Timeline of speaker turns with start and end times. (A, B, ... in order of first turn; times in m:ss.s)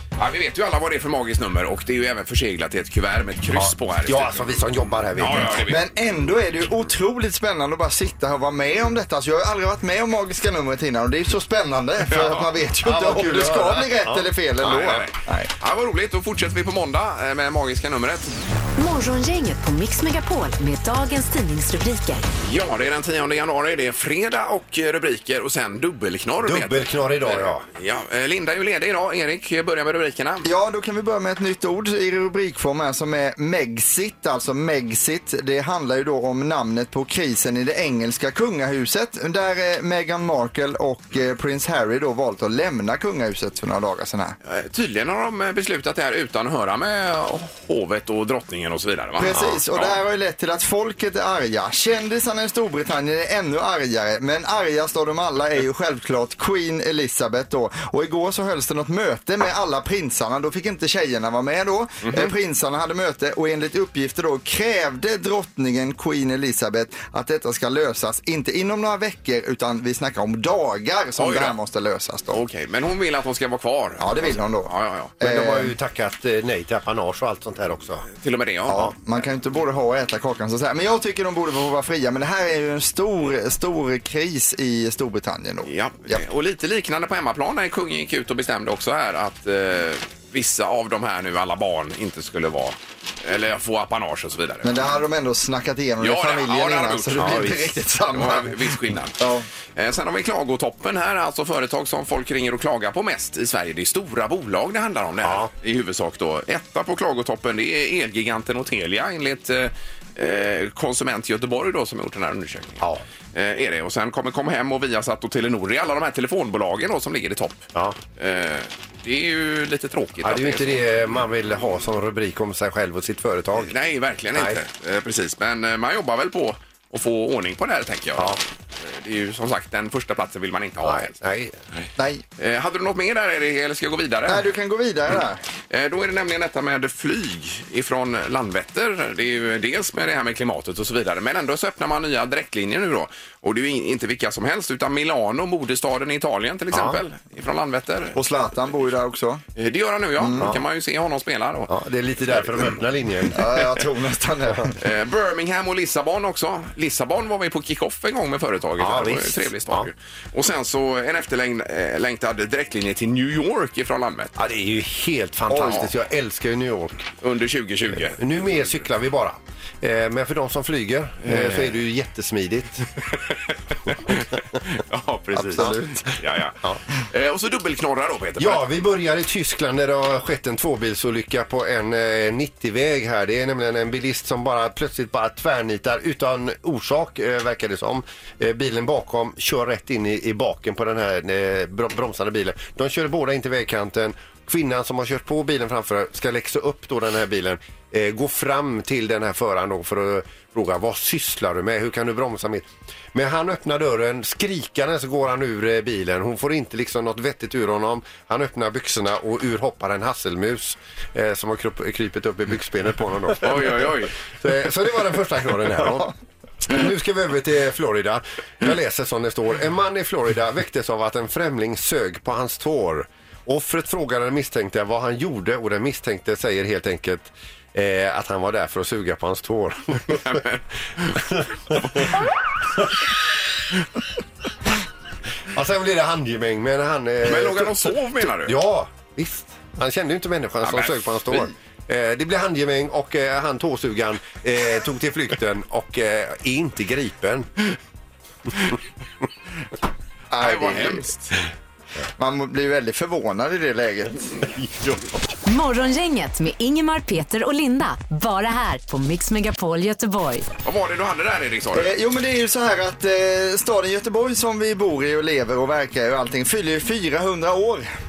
0:00.2-0:04.6 A
0:03.5-0:05.6 B
0:05.2-0:05.8 A
0:05.7-0:15.5 C
0:12.1-0:12.4 A
0:12.8-0:14.3 B
0:14.6-0:18.3 A
0:18.8-0:22.2 D
0:22.4-0:30.4 A
0:26.4-0:27.6 B
0:30.4-0:44.4 C
0:44.4-0:50.0 A
0:49.2-1:12.4 C
1:11.2-1:11.6 A
1:12.3-1:15.1 A
1:14.0-1:15.7 C
1:15.2-1:18.1 B
1:18.1-1:18.9 A
1:18.7-1:26.2 C
1:25.6-1:34.8 A
1:34.6-1:39.4 C
1:36.0-1:37.5 A
1:37.2-1:37.7 B
1:38.1-1:39.2 A
1:39.8-1:52.8 A
1:45.2-1:45.5 B
1:53.3-2:00.8 A
2:00.2-2:03.7 B
2:03.6-2:11.1 A
2:04.3-2:04.6 B
2:10.8-2:11.6 B
2:12.0-2:12.2 C
2:12.4-2:14.5 A
2:14.3-2:15.4 C
2:15.7-2:28.2 A
2:26.7-2:27.0 B
2:28.1-2:29.4 C
2:29.6-2:31.7 A
2:30.2-2:30.5 C
2:31.7-2:33.4 B
2:33.3-2:34.7 C
2:34.8-2:44.3 A
2:38.8-2:39.9 B
2:44.4-2:47.0 B
2:45.5-2:45.9 C
2:45.6-2:45.9 A
2:47.2-2:48.6 A
2:48.1-2:52.9 B
2:51.2-2:51.7 A
2:53.9-2:58.6 A
2:55.3-2:56.8 B
2:55.6-2:56.0 C
2:58.4-3:36.1 B
3:33.4-3:34.1 A
3:36.6-3:50.4 B
3:50.2-3:50.6 A
3:51.1-3:52.1 B
3:55.5-4:07.7 B
3:57.2-3:58.6 A
4:00.6-4:01.5 A
4:10.3-4:11.0 C
4:10.4-4:11.4 A
4:12.2-4:14.4 C
4:15.4-4:20.5 D
4:20.6-4:21.9 A
4:21.7-4:27.9 C